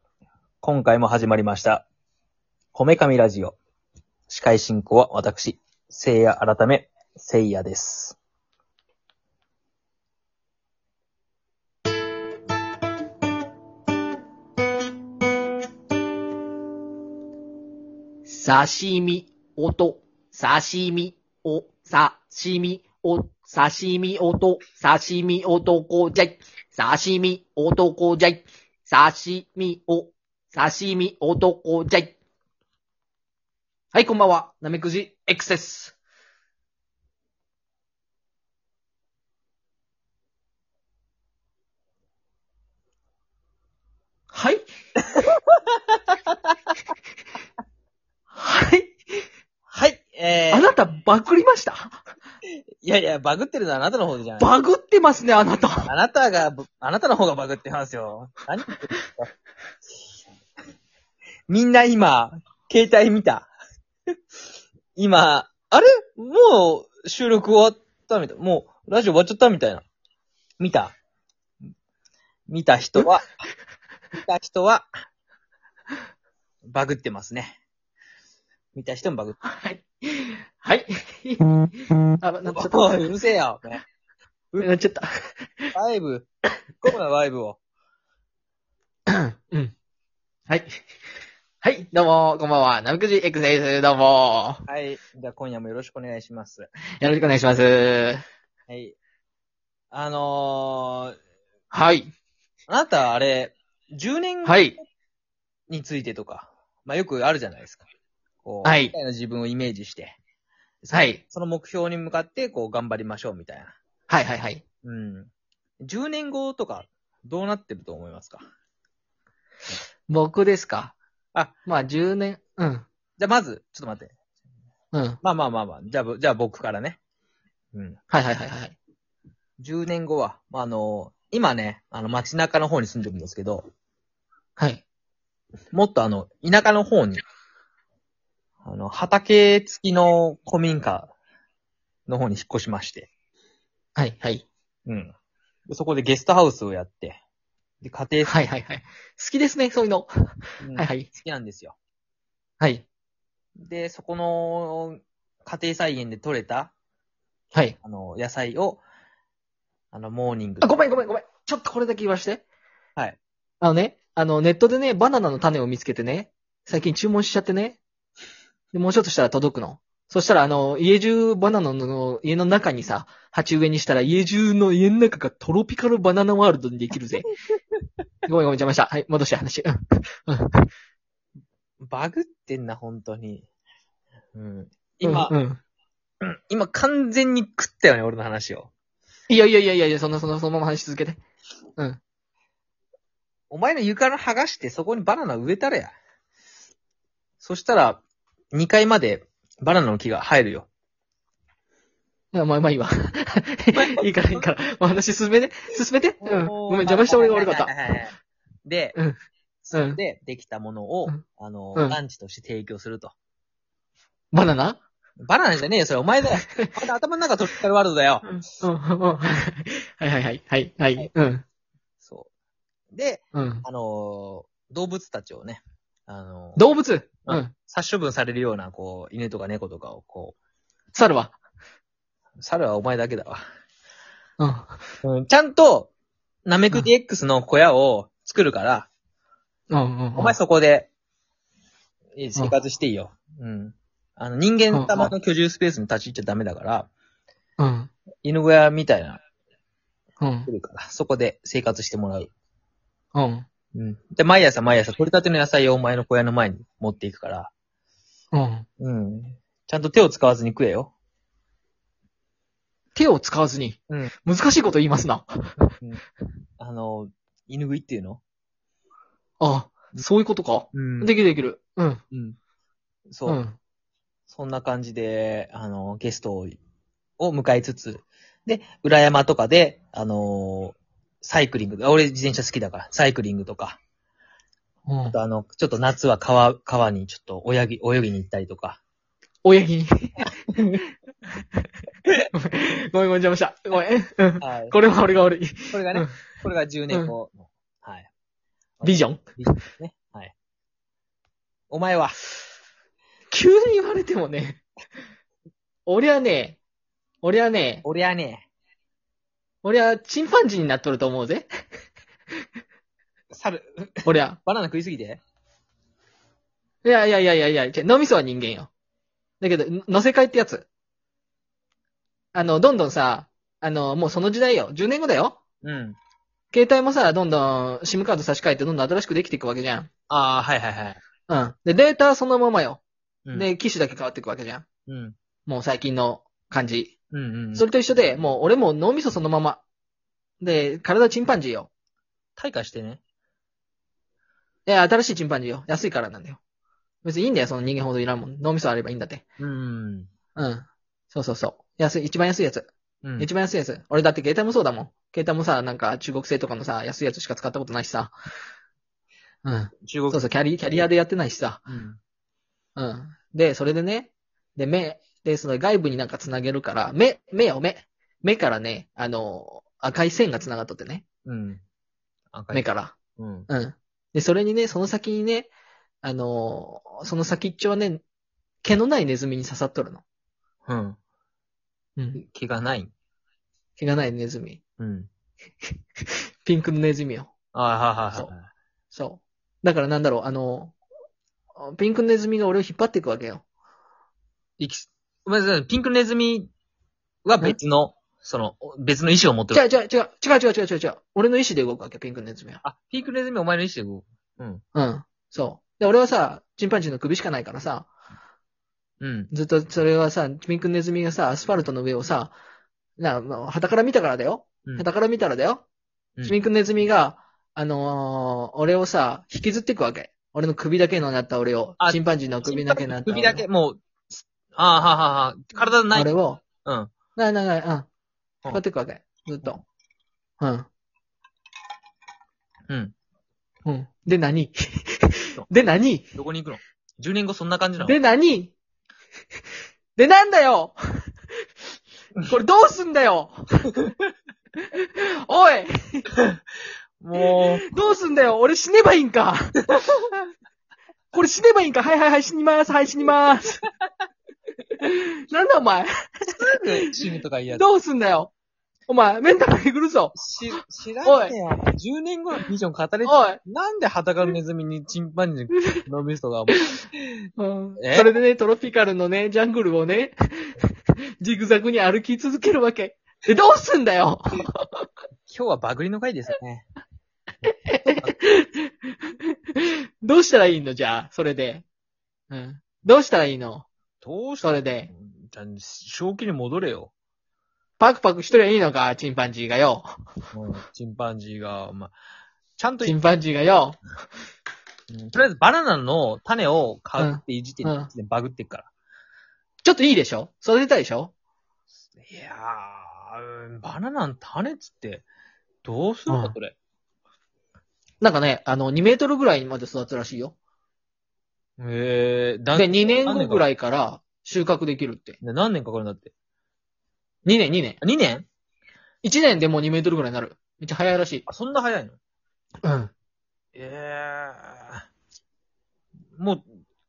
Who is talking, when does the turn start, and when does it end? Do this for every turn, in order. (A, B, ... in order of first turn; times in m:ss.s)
0:00.6-0:01.8 A
0:02.7-0:03.6 A
0:04.3-0:08.2 A
0:18.2-0:32.1 B
0:33.9-0:35.9 B
0:44.3-0:44.6 B
0:48.3-0:49.2 B
0:49.7-0:50.7 A
0:50.5-0:52.0 B
0:52.8-0:54.5 A
0:54.4-0:55.9 B
0:55.8-0:59.3 A
1:01.5-1:03.5 A
1:05.0-1:09.8 A
1:10.6-1:10.9 A
1:12.5-1:13.4 A
1:14.1-1:14.8 A
1:16.7-1:17.6 A
1:18.7-1:19.4 A
1:19.4-1:21.5 B
1:22.2-1:23.1 B
1:22.4-1:23.8 A
1:24.6-1:25.7 B
1:25.7-1:26.3 A
1:26.8-1:27.6 A
1:29.1-1:29.7 B
1:31.6-1:34.6 B
1:34.7-1:36.7 A
1:37.0-1:38.2 B
1:38.7-1:39.0 A
1:39.9-1:41.1 A
1:41.7-1:42.1 B
1:42.7-1:44.8 A
1:44.4-1:44.8 B
1:45.7-1:47.8 A
1:48.4-1:50.2 A
1:48.6-1:48.9 B
1:50.8-1:53.7 A
1:50.9-1:51.2 B
1:54.1-1:54.6 B
1:54.8-1:55.3 A
1:55.8-1:58.4 A
2:00.1-2:00.9 B
2:01.6-2:02.8 B
2:03.2-2:04.1 A
2:04.9-2:05.2 B
2:05.2-2:07.0 A
2:08.1-2:08.8 B
2:09.6-2:13.7 A
2:14.6-2:14.8 B
2:15.7-2:17.2 A
2:18.6-2:21.1 A
2:22.1-2:23.1 A
2:24.0-2:24.4 B
2:24.8-2:25.1 A
2:25.7-2:27.2 A
2:27.8-2:28.3 A
2:28.2-2:30.1 B
2:30.6-2:31.8 A
2:30.7-2:31.1 B
2:32.6-2:32.8 B
2:33.6-2:36.7 A
2:37.8-2:38.8 A
2:39.9-2:40.8 A
2:40.6-2:42.4 B
2:43.6-2:47.8 B
2:48.7-2:57.3 B
2:58.3-3:00.7 B
3:01.8-3:03.5 A
3:04.3-3:05.3 A
3:05.0-3:05.6 B
3:06.2-3:08.7 A
3:09.3-3:11.2 B
3:13.5-3:15.9 A
3:17.4-3:18.0 A
3:18.5-3:20.7 A
3:22.3-3:27.7 B
3:23.7-3:24.5 A
3:26.2-3:28.1 A
3:28.6-3:29.0 A
3:29.6-3:33.1 A
3:29.7-3:30.0 B
3:34.3-3:34.8 B
3:35.2-3:38.6 A
3:36.4-3:36.7 B
3:38.2-3:41.4 B
3:42.0-3:42.3 A
3:42.9-3:46.6 A
3:43.3-3:43.6 B
3:46.6-3:47.5 B
3:47.2-3:50.3 A
3:50.9-3:51.4 B
3:52.4-3:53.4 A
3:54.4-3:54.8 B
3:55.0-3:55.9 A
3:56.4-3:58.9 A
3:59.7-4:00.4 B
4:00.1-4:00.9 A
4:02.2-4:06.9 A
4:04.7-4:05.1 B
4:07.6-4:07.9 B
4:08.2-4:09.2 A
4:10.2-4:10.5 B
4:10.5-4:12.3 A
4:13.1-4:13.4 B
4:13.7-4:17.5 A
4:18.3-4:18.6 B
4:18.8-4:20.9 A
4:22.9-4:25.7 B
4:26.6-4:28.2 A
4:29.4-4:32.0 B
4:30.7-4:31.1 A
4:32.1-4:32.4 A
4:33.1-4:33.4 A
4:33.2-4:33.6 B
4:34.3-4:36.6 A
4:37.2-4:43.8 A
4:44.9-4:45.2 B
4:45.1-4:48.8 A
4:49.4-4:50.2 B
4:50.6-4:50.8 A
4:52.3-4:56.1 B
4:54.4-4:54.8 A
4:55.7-4:58.1 A
4:58.8-5:00.3 A
4:58.8-4:59.3 B
5:01.7-5:02.2 A
5:03.3-5:04.6 B
5:05.8-5:06.6 B
5:07.2-5:07.8 B
5:07.8-5:08.4 A
5:09.6-5:11.5 B
5:13.3-5:15.2 A
5:14.0-5:14.4 B
5:16.8-5:18.7 B
5:19.4-5:20.7 B
5:22.3-5:25.4 B
5:25.6-5:26.0 A
5:26.5-5:29.9 B
5:30.1-5:31.0 A
5:31.3-5:32.8 B
5:33.3-5:34.6 B
5:34.9-5:35.2 A
5:35.5-5:36.9 B
5:37.1-5:37.6 A
5:37.5-5:39.6 B
5:40.4-5:41.7 B
5:42.4-5:43.0 A
5:44.6-5:46.4 B
5:47.0-5:49.2 B
5:49.4-5:50.1 A
5:50.4-5:58.1 B
5:53.0-5:53.3 A
5:59.4-6:01.6 B
5:59.8-6:00.3 A
6:01.7-6:02.0 A
6:02.8-6:11.0 B
6:11.2-6:11.6 A
6:12.3-6:13.5 A
6:12.5-6:12.9 B
6:13.5-6:15.5 B
6:16.0-6:18.0 B
6:18.6-6:20.0 B
6:20.6-6:21.0 A
6:22.0-6:22.2 B
6:22.2-6:22.9 A
6:23.8-6:24.6 B
6:24.8-6:25.1 A
6:26.4-6:27.3 B
6:27.5-6:28.5 A
6:28.9-6:30.8 B
6:31.6-6:33.4 B
6:34.6-6:36.5 A
6:37.2-6:39.6 A
6:39.5-6:42.6 B
6:42.6-6:44.6 A
6:44.7-6:47.9 B
6:49.0-6:49.3 A
6:49.3-6:52.3 B
6:53.0-6:55.6 B
6:56.2-7:03.4 B
7:01.8-7:06.1 A
7:05.9-7:06.4 B
7:06.6-7:06.9 A
7:07.2-7:07.9 B
7:08.5-7:09.6 B
7:10.4-7:10.7 B
7:12.7-7:12.9 A
7:13.6-7:16.1 B
7:16.1-7:18.0 A
7:17.8-7:18.5 B
7:20.0-7:20.8 B
7:22.2-7:23.8 B
7:24.7-7:26.1 B
7:27.0-7:27.6 A
7:27.4-7:29.8 B
7:31.1-7:33.6 B
7:34.8-7:36.3 B
7:36.3-7:37.6 A
7:37.5-7:38.3 B
7:38.9-7:40.2 B
7:40.1-7:46.6 A
7:41.0-7:41.4 B
7:43.0-7:43.4 B
7:47.4-7:50.6 B
7:47.8-7:48.1 A
7:51.2-7:54.8 B
7:55.3-7:56.6 A
7:57.7-8:01.6 B
7:57.9-7:58.2 A
8:02.3-8:03.6 B
8:04.0-8:06.9 A
8:04.4-8:04.9 B
8:07.8-8:09.9 B
8:10.3-8:11.9 A
8:12.6-8:13.0 A
8:12.8-8:13.8 B
8:14.9-8:18.7 A
8:17.0-8:17.9 B
8:19.6-8:21.1 B
8:22.0-8:25.0 A
8:25.6-8:26.6 A
8:26.1-8:26.4 B
8:28.0-8:30.3 B
8:31.6-8:33.4 A
8:32.5-8:35.2 B
8:35.2-8:36.1 A
8:37.2-8:37.8 B
8:37.8-8:38.2 A
8:39.0-8:41.2 B
8:41.2-8:42.0 A
8:42.6-8:42.9 B
8:43.5-8:44.8 A
8:46.2-8:46.4 A